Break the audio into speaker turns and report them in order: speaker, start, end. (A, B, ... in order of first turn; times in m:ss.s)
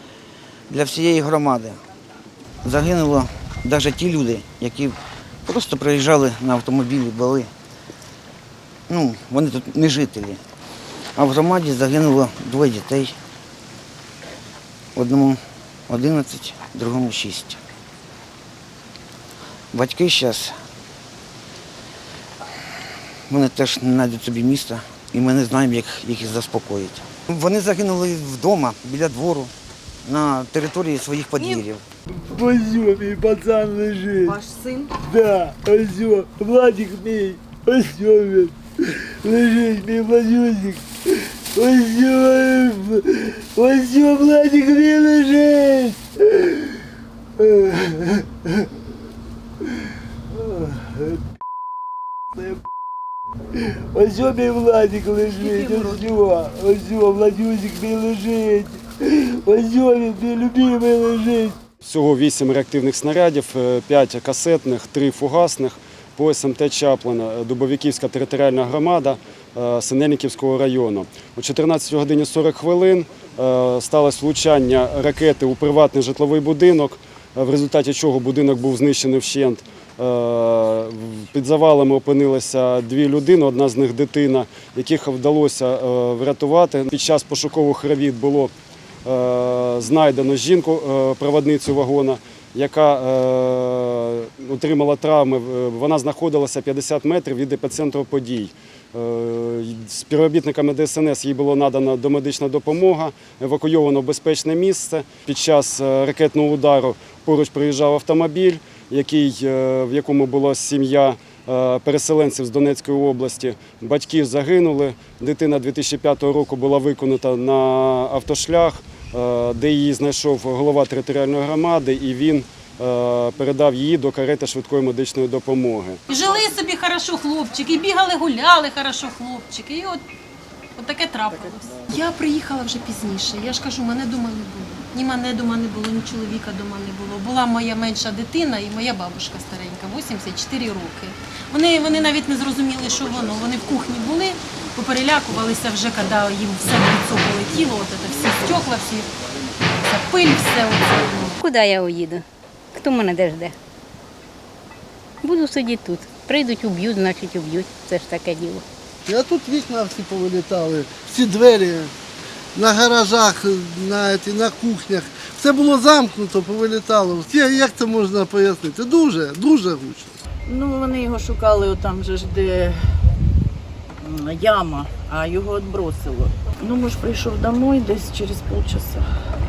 0:00.7-0:01.8 A
0:02.6-0:07.5 A
0:08.9-0:10.4 A
0:11.2-0:13.2 A
0:14.9-0:17.6 A
0:19.7-0:20.6 A
0:23.3-0:29.5 A
0:30.0-0:31.8 A
0:32.1-0:34.4 B
0:34.2-0:34.9 C
0:35.0-0:38.5 B
0:39.2-0:40.8 B
0:41.5-0:46.7 B
0:47.4-0:48.5 B
0:50.3-0:51.2 B
0:53.9-1:01.6 B
1:01.8-1:28.5 D
1:29.0-2:06.0 D
2:06.1-2:10.0 C
2:10.8-2:29.1 C
2:29.8-2:31.4 C
2:31.4-2:33.5 E
2:35.2-2:38.6 E
2:39.0-2:41.9 F
2:42.5-2:50.1 F
2:50.5-2:52.8 G
2:54.0-2:59.1 G